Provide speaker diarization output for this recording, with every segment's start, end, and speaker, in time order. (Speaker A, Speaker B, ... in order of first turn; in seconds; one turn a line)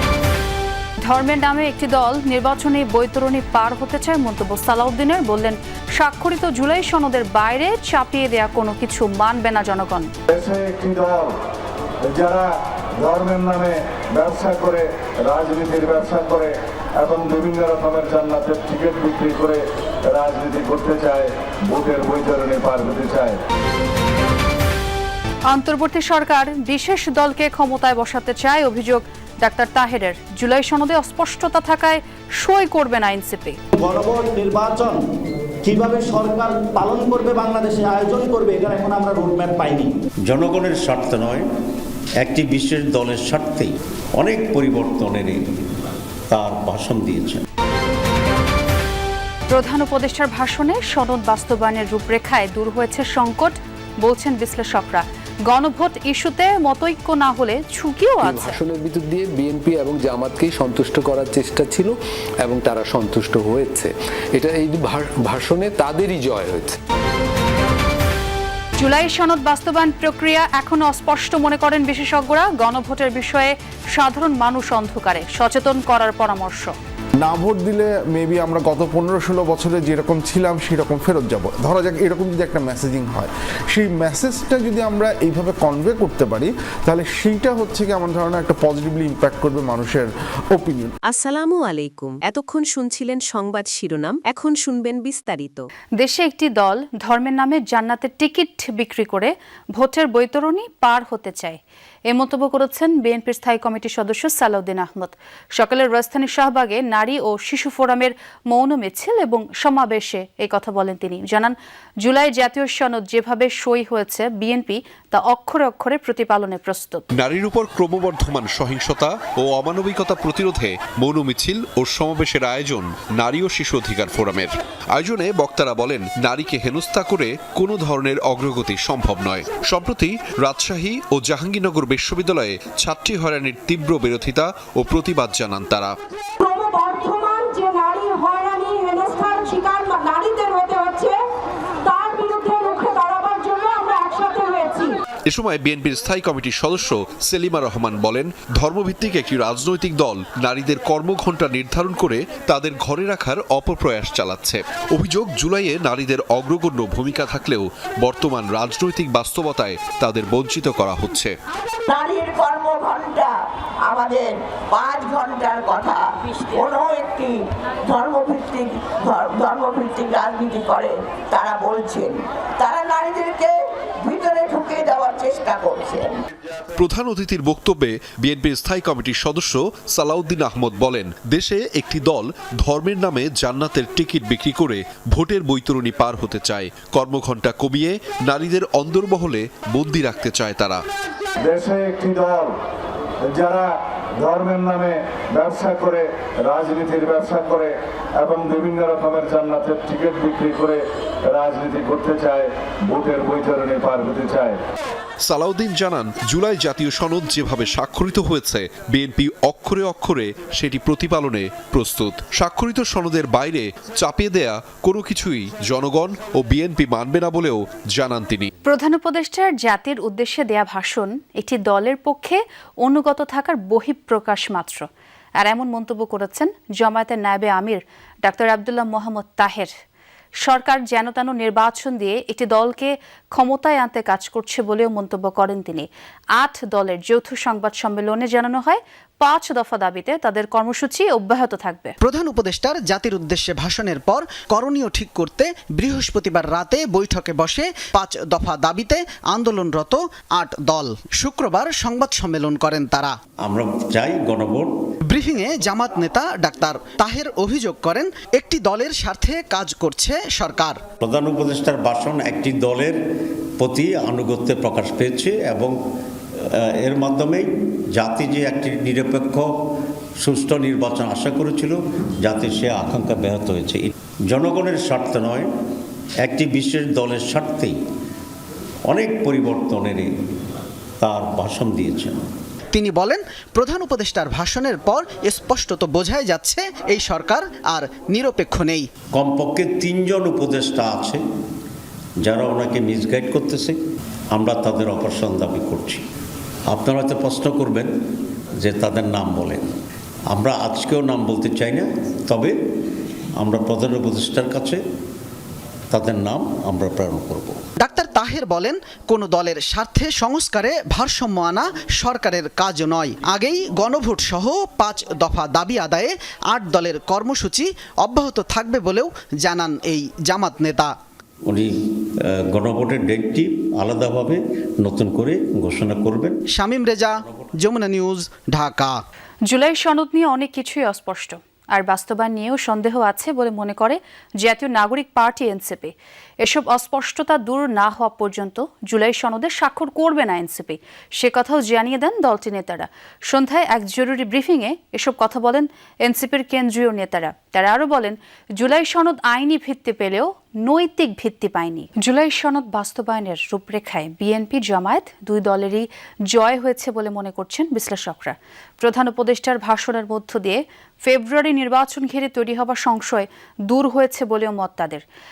Speaker A: 1.1-10.1
Speaker B: 10.3-11.3
Speaker B: 12.1-12.5
Speaker B: 13.0-23.4
Speaker A: 25.5-33.6
Speaker C: 33.8-35.0
Speaker C: 35.7-39.9
Speaker D: 40.3-41.5
Speaker D: 42.2-45.4
Speaker D: 46.3-47.5
Speaker A: 49.5-58.6
Speaker E: 58.2-66.8
Speaker A: 68.8-76.8
Speaker F: 77.2-90.9
Speaker G: 91.1-95.6
Speaker A: 96.0-117.0
Speaker H: 117.2-135.9
Speaker I: 136.4-141.2
Speaker I: 141.8-144.9
Speaker H: 145.3-161.3
Speaker J: 161.9-176.2
Speaker H: 176.8-190.8
Speaker B: 191.4-192.5
Speaker B: 193.3-193.7
Speaker B: 194.2-200.8
Speaker B: 201.3-204.6
Speaker H: 205.2-218.5
Speaker A: 218.7-224.9
Speaker A: 225.4-229.7
Speaker A: 230.4-241.9
Speaker K: 242.0-253.1
Speaker D: 253.4-254.7
Speaker K: 255.1-260.8
Speaker D: 261.0-263.0
Speaker D: 263.6-265.8
Speaker D: 266.8-269.5
Speaker D: 270.2-275.5
Speaker D: 276.2-277.8
Speaker D: 278.9-280.1
Speaker D: 281.0-282.2
Speaker K: 282.7-288.9
Speaker D: 289.1-291.2
Speaker D: 292.2-293.8
Speaker D: 294.3-296.0
Speaker D: 296.7-297.9
Speaker D: 298.6-299.7
Speaker D: 300.3-302.5
Speaker D: 303.4-304.8
Speaker D: 305.9-307.6
Speaker K: 307.8-320.9
Speaker D: 322.5-326.4
Speaker K: 326.5-329.0
Speaker A: 329.5-365.0